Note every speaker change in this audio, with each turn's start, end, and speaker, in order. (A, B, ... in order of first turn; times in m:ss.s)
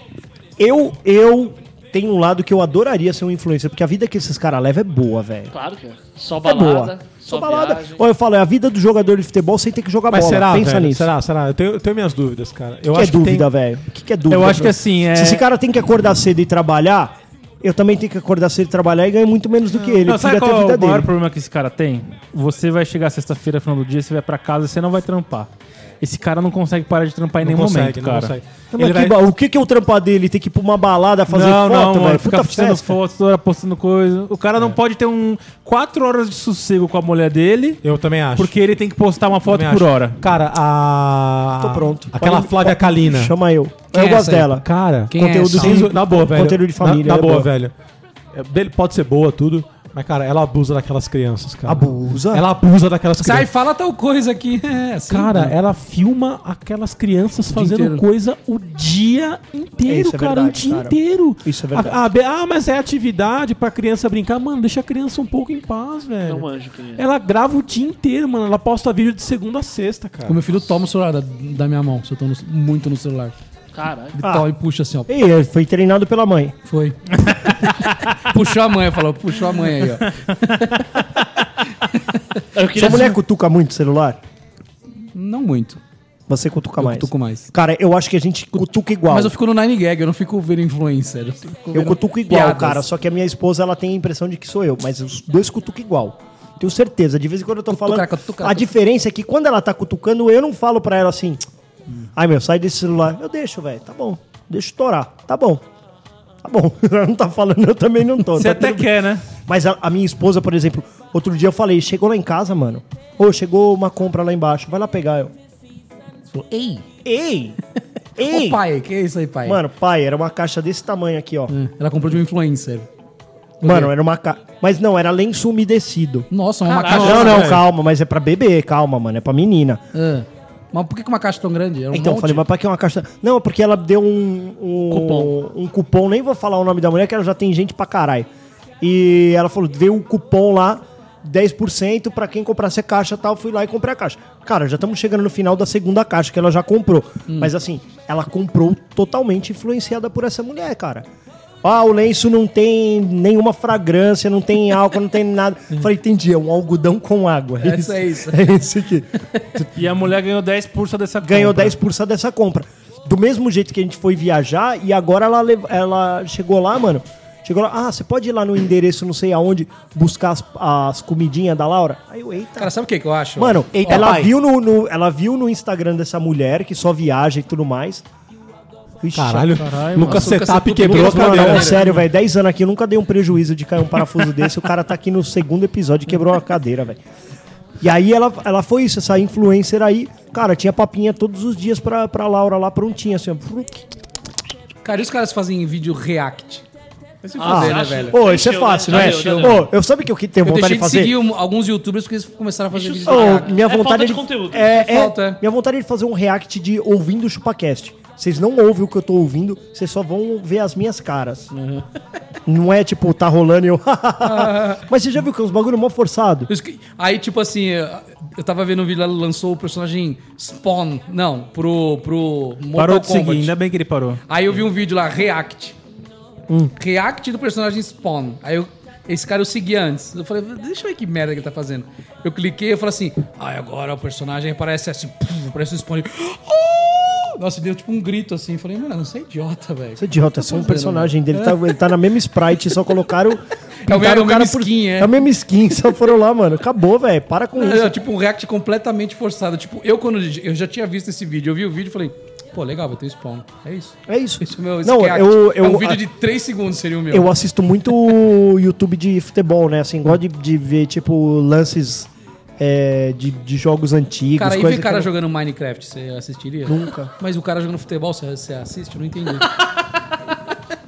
0:00.6-0:05.5 A
0:05.5-0:08.0 B
0:06.4-0:11.1 A
0:10.1-0:13.5 C
0:12.9-0:21.1 A
0:14.3-0:15.4 D
0:20.0-0:25.5 D
0:26.0-0:28.4 D
0:27.4-0:29.2 C
0:28.7-0:32.9 A
0:31.3-0:37.8 D
0:37.8-0:38.6 C
0:38.4-0:40.2 D
0:39.4-0:43.4 C
0:41.6-0:47.5 A
0:43.9-0:45.8 E
0:44.6-0:47.7 C
0:48.3-0:53.5 C
0:51.7-0:52.4 A
0:53.2-0:55.6 E
0:55.1-1:10.7 C
0:57.5-0:58.0 E
0:59.9-1:02.0 A
1:06.2-1:07.0 B
1:10.3-1:13.4 E
1:13.7-1:14.2 B
1:14.1-1:15.1 E
1:14.2-1:14.5 A
1:15.1-1:16.6 A
1:16.7-1:21.0 E
1:21.8-1:22.4 E
1:22.6-1:23.2 B
1:22.7-1:24.2 A
1:25.2-1:25.8 E
1:26.3-1:29.3 A
1:26.8-1:27.5 E
1:29.1-1:32.8 E
1:31.7-1:41.4 A
1:37.7-1:38.7 E
1:42.2-1:45.6 A
1:46.4-1:48.9 A
1:48.4-1:49.3 D
1:49.4-1:55.3 A
1:56.3-1:56.9 E
1:57.0-1:57.6 A
1:58.2-1:58.6 A
1:58.3-1:59.6 E
1:59.4-2:01.5 A
2:01.5-2:02.9 E
2:03.6-2:03.9 E
2:03.6-2:06.3 A
2:06.3-2:07.6 E
2:06.7-2:07.4 B
2:06.9-2:09.8 A
2:06.9-2:07.6 C
2:09.9-2:12.4 E
2:11.9-2:18.3 A
2:14.9-2:15.3 B
2:18.8-2:31.0 A
2:31.6-2:39.7 A
2:37.6-2:38.4 E
2:39.8-2:41.8 D
2:41.2-2:52.7 A
2:52.6-2:54.1 E
2:53.4-2:58.0 A
2:53.7-2:54.3 C
2:59.0-2:59.6 A
2:59.2-3:01.8 C
2:59.6-3:00.1 D
3:00.0-3:01.9 E
3:00.8-3:07.0 A
3:07.8-3:13.9 A
3:14.8-3:16.6 E
3:17.2-3:18.2 E
3:17.4-3:19.7 B
3:17.4-3:21.1 A
3:18.9-3:19.7 E
3:20.4-3:23.6 E
3:22.7-3:24.8 B
3:23.1-3:31.5 A
3:24.7-3:25.4 E
3:31.5-3:31.8 E
3:32.5-3:36.5 A
3:34.2-3:34.8 E
3:36.5-3:43.5 E
3:42.8-3:44.2 D
3:44.3-3:45.8 E
3:46.8-4:01.8 E
4:00.0-4:08.0 A
4:03.9-4:05.2 E
4:07.6-4:17.3 E
4:14.1-4:16.0 A
4:17.1-4:22.1 A
4:22.6-4:25.1 A
4:24.4-4:29.5 E
4:26.7-4:27.1 A